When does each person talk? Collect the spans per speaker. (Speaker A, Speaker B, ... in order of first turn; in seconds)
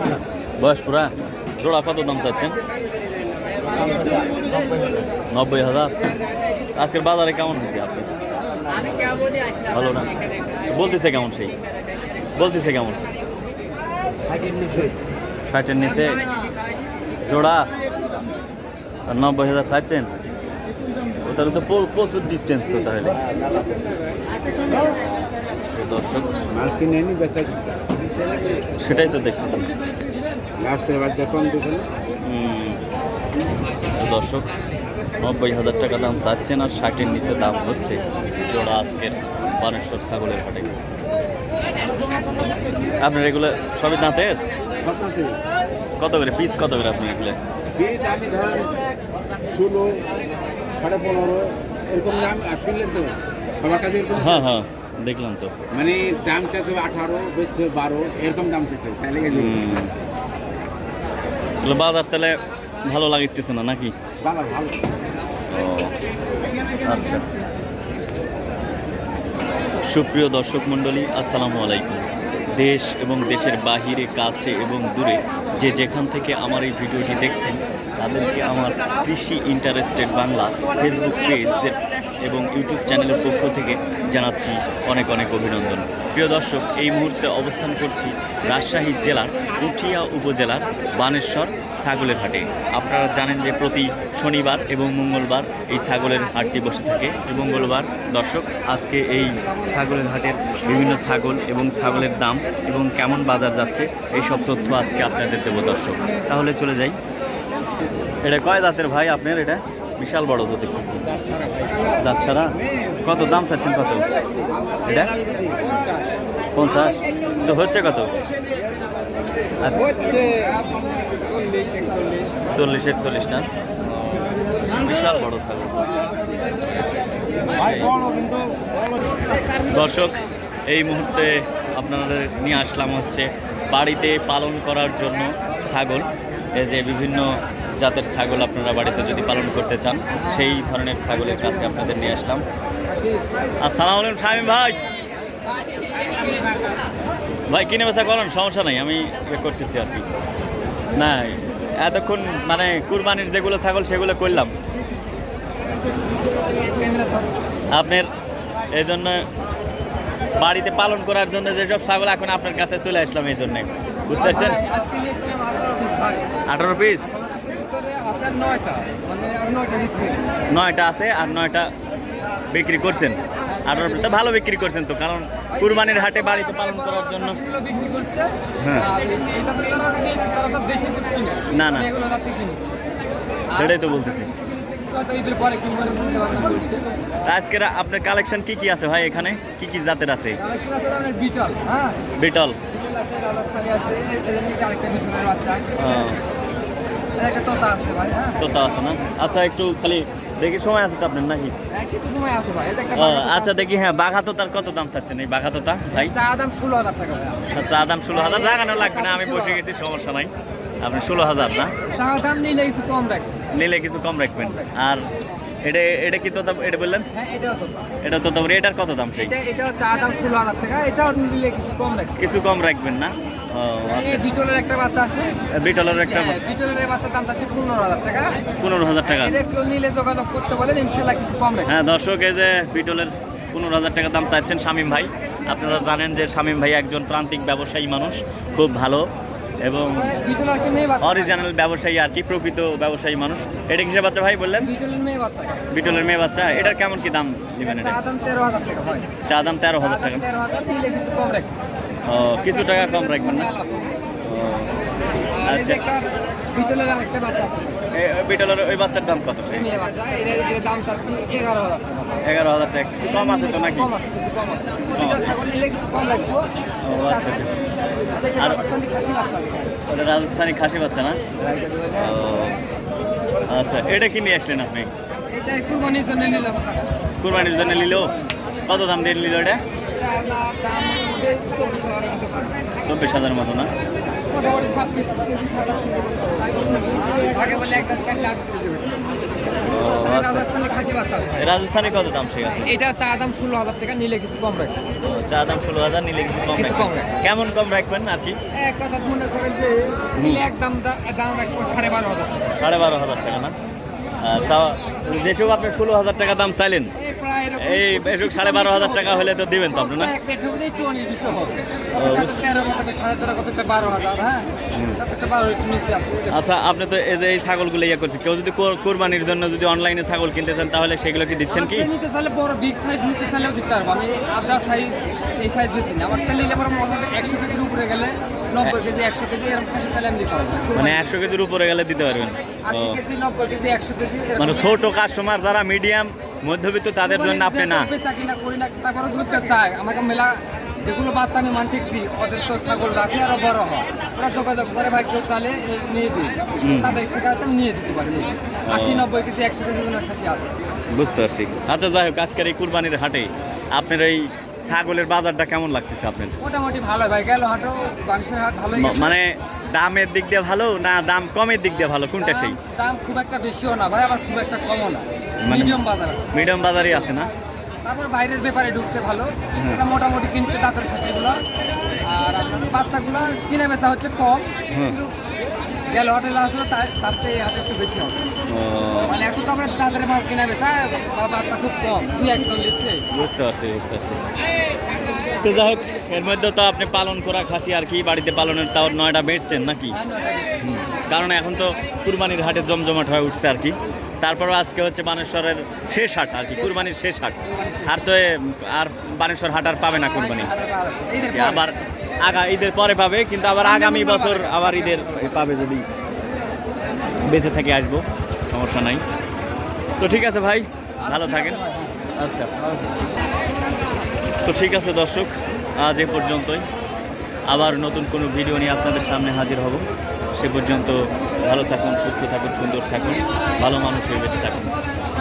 Speaker A: 0.6-2.5, 5.3-5.9, 6.8-8.1, 9.7-10.1, 10.7-11.5, 12.3-13.0, 15.5-16.2, 17.2-17.7, 19.1-20.1, 21.2-23.2, 25.7-26.3, 28.8-29.7, 32.2-32.8, 33.9-34.5, 35.2-40.7, 43.0-44.4, 46.0-47.4, 54.1-55.5, 59.3-59.9, 61.6-63.9, 65.5-65.9, 66.8-67.2, 69.8-107.0, 108.2-111.0, 112.0-114.0, 114.8-115.1, 116.5-118.1, 119.6-120.1, 122.5-126.0, 127.5-128.0, 129.7-130.2, 130.7-142.4, 143.6-144.8, 147.5-150.0, 150.9-154.5, 157.7-158.1, 158.7-159.2, 160.4-164.6, 166.5-167.1, 170.5-171.7, 172.5-177.4, 178.6-178.9, 181.5-181.9, 183.5-184.3, 187.3-190.4, 192.1-192.6, 195.8-196.2, 198.4-201.5, 202.9-206.1, 207.4-211.7, 213.5-215.1, 215.6-217.1, 218.0-219.3, 222.2-224.2, 225.5-226.4, 228.6-229.3, 231.7-239.1, 239.6-240.1, 241.0-244.7, 245.7-248.0, 249.3-250.2, 252.1-253.5, 254.2-254.8, 255.4-255.8, 257.9-259.7, 262.2-263.9, 264.9-265.3, 266.8-267.5, 269.9-271.2, 271.9-272.6, 273.5-274.9, 277.2-278.1, 278.6-279.6, 282.8-283.7, 286.5-287.0, 289.6-290.5, 291.4-292.7, 295.0-298.4, 300.1-300.4, 302.6-303.5, 304.2-306.9, 307.6-310.1, 311.9-312.4, 314.7-315.0, 316.3-321.9, 330.7-333.0, 334.4-337.9, 346.6-347.0, 348.6-349.1, 350.9-356.3, 358.7-362.6, 365.4-365.8, 366.3-367.3, 369.5-369.8, 374.7-375.0, 378.5-379.2, 383.1-384.2, 385.4-390.0, 390.6-400.5, 401.3-405.9, 407.2-409.0, 410.0-411.6, 412.1-412.9, 414.4-416.6, 417.5-419.8, 420.4-424.7
Speaker B: 26.5-27.6, 30.6-31.9, 44.8-45.4, 47.8-48.8, 49.5-50.1, 50.8-54.5, 55.7-59.6, 64.2-64.8
Speaker C: 142.9-143.2, 145.5-146.6, 154.7-155.1, 156.5-157.3, 164.1-166.4, 167.1-170.2, 173.5-174.2, 175.5-182.7, 183.5-186.9, 190.4-192.0, 192.7-195.8, 197.2-198.4, 201.7-203.7, 205.9-207.5, 208.1-209.6, 211.8-213.4, 214.4-214.7, 217.1-217.9, 219.1-222.2, 223.8-225.4, 226.1-228.4, 229.0-231.7, 239.9-241.4, 244.6-245.7, 247.6-249.1, 249.8-251.5, 252.3-253.9, 255.3-257.8, 259.5-262.2, 263.0-266.5, 267.0-267.4, 268.1-269.8, 271.6-271.8, 275.3-276.9, 280.0-282.6, 284.3-286.6, 287.1-289.0, 289.8-291.5, 292.6-294.8, 296.5-297.1, 298.5-302.6, 307.0-316.4, 321.5-331.2, 332.6-334.7, 337.0-350.5, 356.4-359.2, 362.2-366.3, 367.8-371.4, 372.0-375.1, 375.9-378.3, 379.1-383.0, 389.9-390.7, 396.6-396.9, 397.4-397.9, 400.1-401.7, 403.6-405.4, 411.0-412.0